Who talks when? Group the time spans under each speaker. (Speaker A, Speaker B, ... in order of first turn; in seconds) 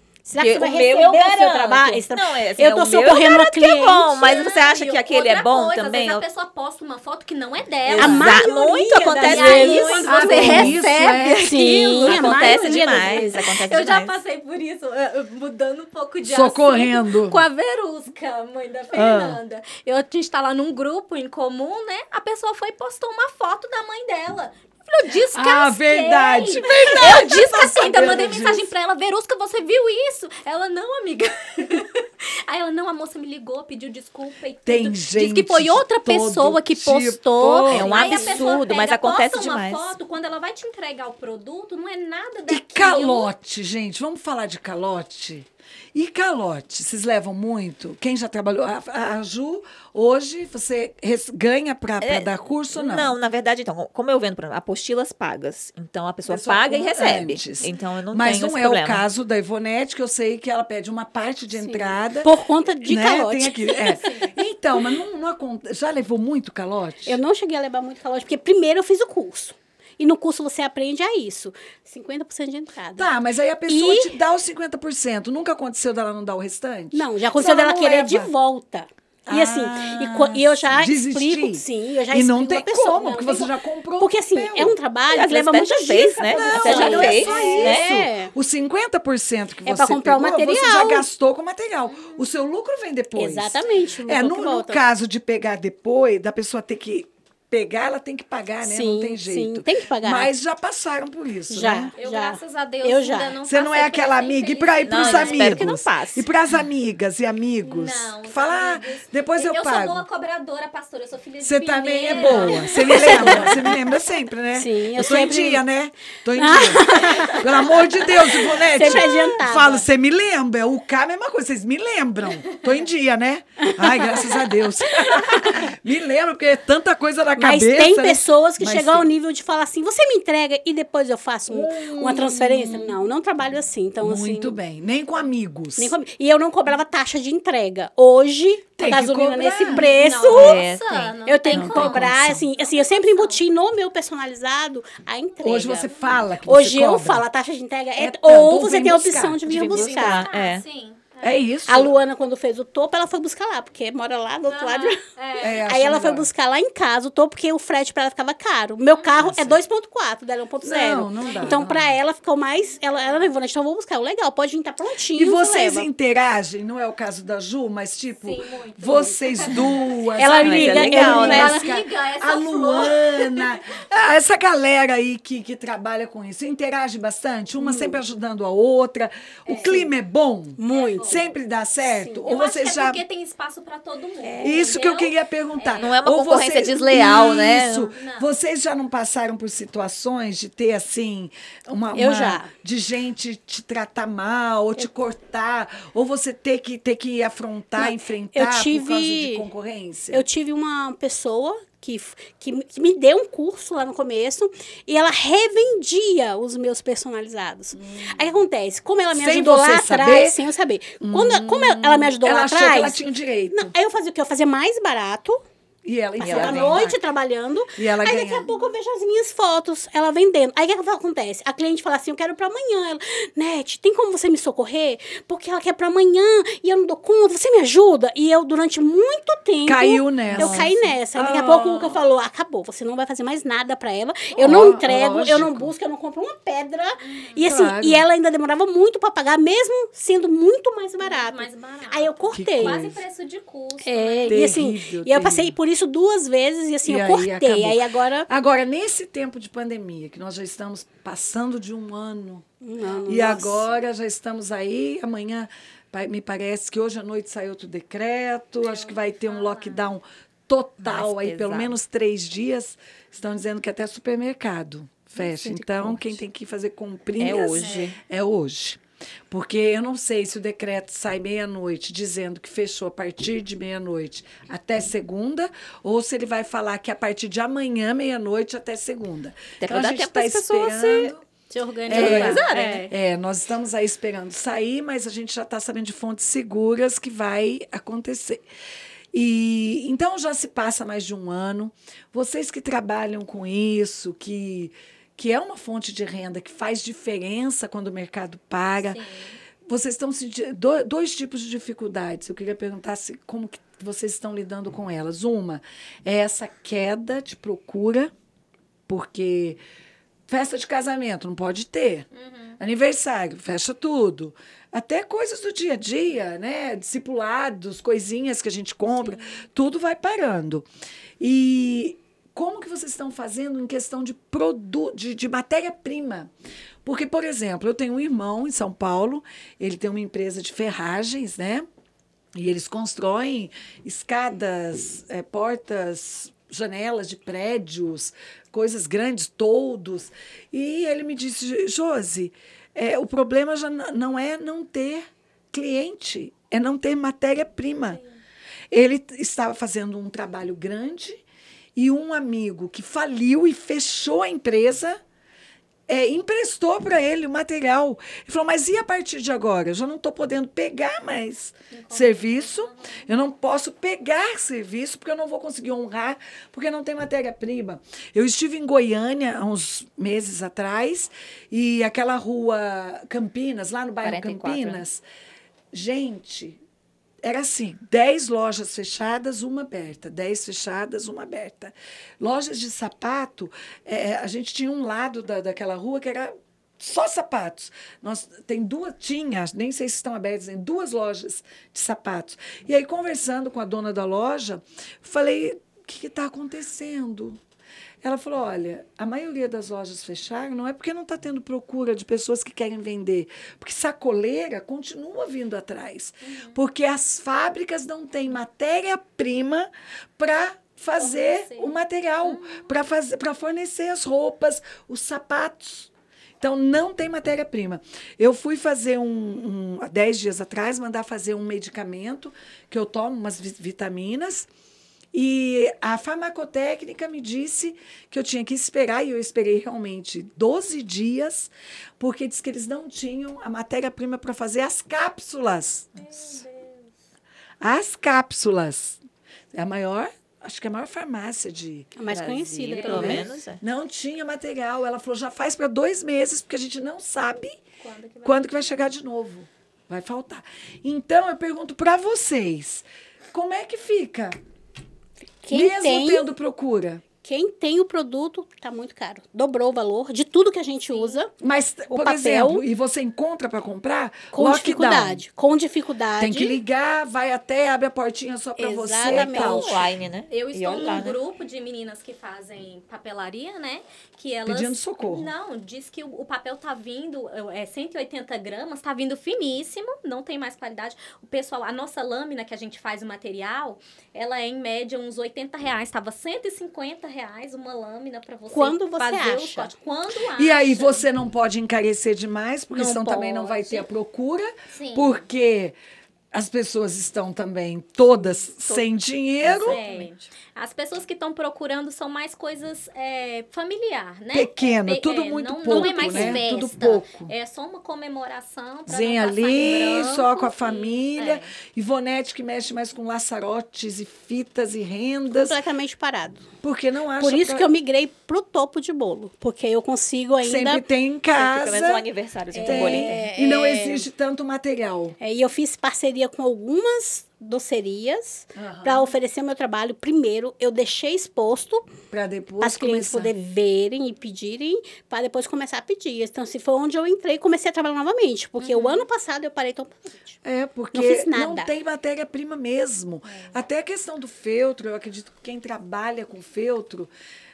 Speaker A: 0.3-4.1, 8.0-10.8, 11.4-13.3, 61.6-64.1, 67.1-73.1, 73.7-74.1, 76.9-88.3, 89.6-91.0, 93.2-94.8, 98.6-100.3, 101.5-103.4, 112.1-113.8, 114.5-115.6, 116.4-119.9, 123.8-124.5, 125.0-125.7, 127.4-134.6, 135.8-140.6, 141.3-150.3, 151.7-165.9, 169.6-171.7, 177.6-178.0, 179.5-179.9, 180.6-181.2, 181.8-182.3, 184.3-184.5, 191.9-192.5, 197.8-199.5, 200.1-213.0, 213.5-215.4, 216.2-242.8, 243.8-248.3, 252.6-253.6, 442.0-443.3, 455.4-456.3, 457.2-461.3, 461.9-462.6, 464.3-466.6, 468.6-469.9, 488.5-489.7, 505.7-506.4, 515.3-516.5, 517.2-520.8, 522.5-524.1, 525.2-531.9, 532.6-540.4, 540.9-541.7
Speaker B: 0.4-6.2, 7.9-14.2, 37.7-39.9, 52.0-59.0, 85.1-87.9, 104.9-106.3, 140.3-141.1, 149.4-150.6, 170.3-171.6, 185.8-187.9, 216.2-216.9, 230.3-230.7, 260.8-261.7, 265.2-266.2, 267.2-268.0, 279.6-281.1, 281.9-282.9, 374.0-374.9, 442.1-443.6, 469.0-471.2, 498.6-498.9, 499.4-500.1, 521.3-523.2
Speaker C: 4.1-8.5, 9.2-11.4, 12.1-43.3, 63.9-64.3, 86.7-87.0, 91.9-92.3, 102.0-105.7, 107.6-113.7, 139.7-143.4, 149.7-151.3, 154.5-155.6, 168.2-173.8, 179.5-179.8, 180.7-181.3, 182.3-185.9, 187.6-188.3, 237.0-237.4, 241.0-244.6, 258.6-259.9, 267.6-267.9, 281.5-282.9, 298.9-299.4, 312.1-312.6, 361.7-363.0, 406.2-406.6, 411.0-412.6, 436.3-436.6, 442.9-443.2, 447.8-448.6, 460.9-461.2, 470.3-491.1, 492.7-493.9, 494.7-495.2, 499.6-511.4, 538.6-539.1
Speaker D: 9.7-12.1, 16.2-17.4, 18.9-19.4, 25.3-28.7, 34.7-38.4, 42.5-53.2, 56.3-67.2, 73.0-78.3, 79.3-84.8, 86.3-101.9, 103.5-110.0, 111.4-129.1, 131.5-133.0, 134.0-136.0, 138.8-139.9, 141.5-142.4, 145.4-147.2, 147.9-149.4, 151.2-151.9, 155.4-156.3, 159.2-159.6, 160.6-161.9, 165.1-183.0, 184.4-200.3, 207.7-208.2, 209.1-210.4, 211.0-213.7, 215.8-217.0, 217.8-218.5, 229.6-232.0, 234.3-235.7, 237.4-238.1, 242.3-243.0, 244.3-245.6, 246.9-252.4, 253.1-281.2, 281.9-288.4, 289.1-299.0, 299.7-308.1, 308.9-309.6, 310.3-312.1, 312.6-320.7, 321.2-326.3, 326.9-331.7, 332.4-348.0, 348.7-351.2, 351.8-355.0, 355.9-375.0, 375.7-376.6, 377.2-397.4, 398.0-424.5, 425.1-436.4, 437.6-439.0, 439.5-441.9, 442.9-447.6, 448.2-454.3, 455.5-457.0, 461.4-465.2, 466.2-469.8, 474.4-475.3, 490.4-495.8, 496.3-499.8, 504.3-507.3, 508.9-515.6, 516.6-517.7, 520.4-522.0, 522.6-525.2, 528.5-529.1, 532.1-533.4, 540.4-547.1